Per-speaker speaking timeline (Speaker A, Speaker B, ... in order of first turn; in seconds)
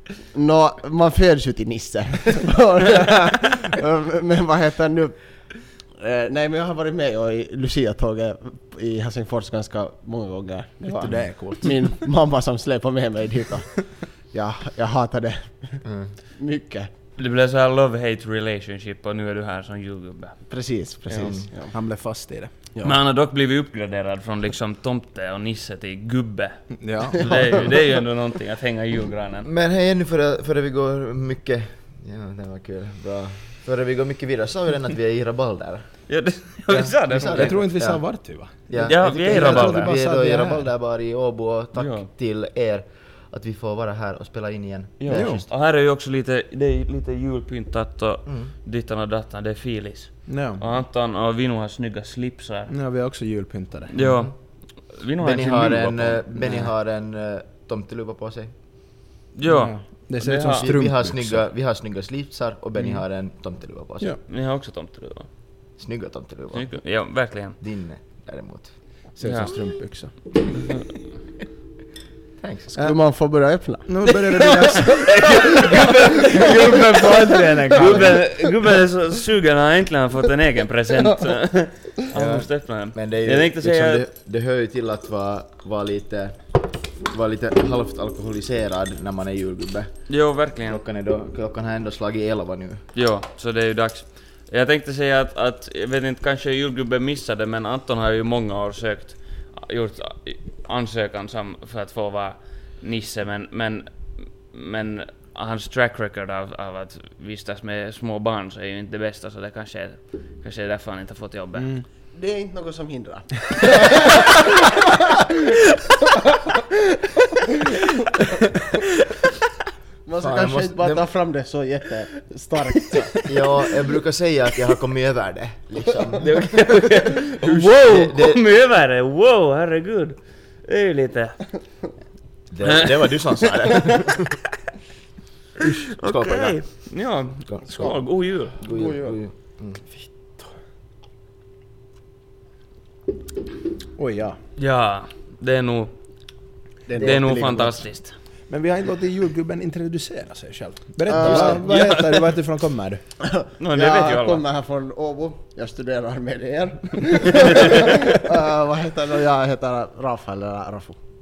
Speaker A: 0.3-5.2, 6.0-16.9, 20.5-21.7, 72.7-78.2, 112.1-114.9, 120.1-123.2, 138.7-139.2, 146.9-147.7, 151.1-151.6, 153.2-161.0
Speaker B: 10.9-12.0, 21.7-22.5, 26.8-27.7, 36.7-40.7, 45.1-45.5, 50.3-50.6, 52.7-54.0, 59.5-61.4, 69.2-70.2, 73.9-75.1, 76.4-78.2, 111.6-111.8, 139.9-140.5, 144.0-144.4, 148.5-153.0
Speaker C: 15.8-16.1, 21.2-21.5, 29.4-35.9, 37.1-38.0, 38.7-45.4, 54.0-54.3, 55.2-58.5, 60.5-64.2, 65.8-66.8, 67.6-68.7, 72.4-72.7, 77.7-78.2, 82.1-86.4, 87.0-90.1, 90.7-92.8, 120.2-121.0, 123.3-126.8, 127.4-128.4, 132.5-134.4, 135.6-136.6, 137.5-138.0, 138.5-139.8, 151.2-151.6
Speaker D: 17.2-20.4, 22.8-29.5, 36.1-37.6, 38.8-39.9, 41.8-42.1, 45.0-52.7, 53.9-56.3, 59.4-60.7, 64.3-65.3, 66.5-67.6, 69.2-69.5, 70.5-70.9, 74.1-84.0, 90.1-90.8, 92.9-111.7, 126.2-131.5, 132.6-132.9, 135.9-138.6, 144.6-145.9, 147.0-148.2, 151.6-152.3, 153.6-154.4, 157.3-157.9